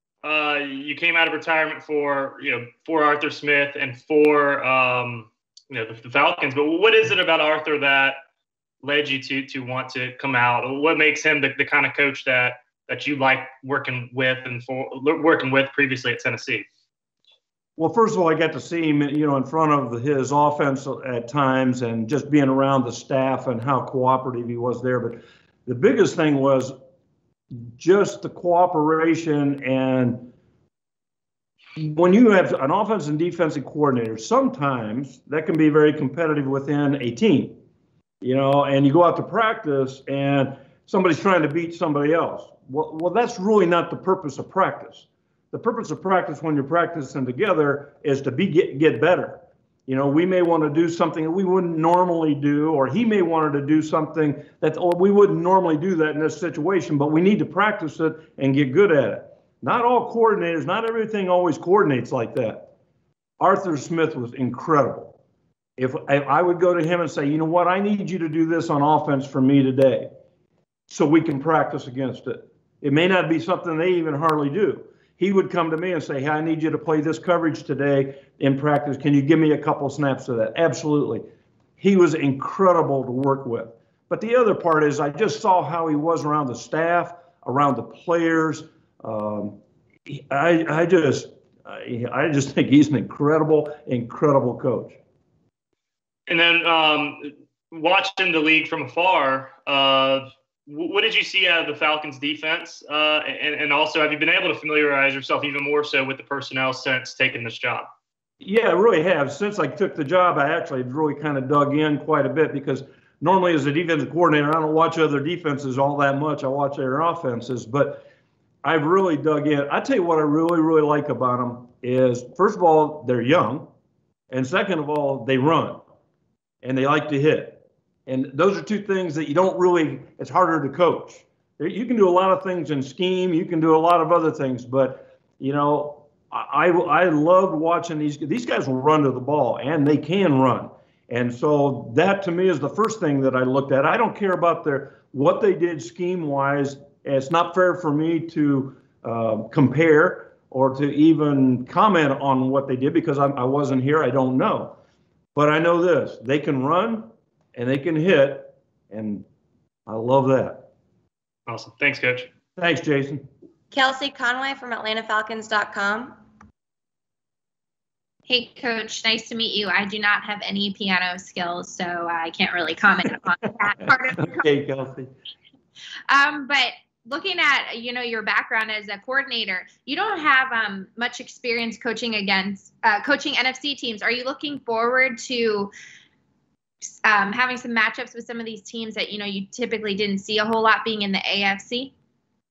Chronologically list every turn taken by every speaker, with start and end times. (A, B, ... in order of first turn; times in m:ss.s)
0:00.2-0:08.2 A
0:08.8-0:16.6 A
0:17.8-0:26.7 B
0:27.5-0:30.3 B
0:31.8-0:37.6 B
0:38.2-1:02.7 B
1:03.4-1:05.2 B
1:05.8-1:10.1 B
1:10.9-1:21.2 B
1:21.8-1:29.6 B
1:30.1-1:35.0 B
1:36.3-1:47.9 A
1:48.4-1:58.0 B
1:58.6-2:03.7 B
2:04.3-2:05.8 B
2:06.6-2:34.8 B
2:35.3-2:39.2 B
2:39.9-2:40.7 B
2:41.5-2:42.3 A
2:42.6-2:43.2 B
2:43.7-2:46.1 C
2:48.3-2:54.4 D
2:53.8-2:55.1 B
2:56.1-3:05.7 D
3:06.8-3:11.9 D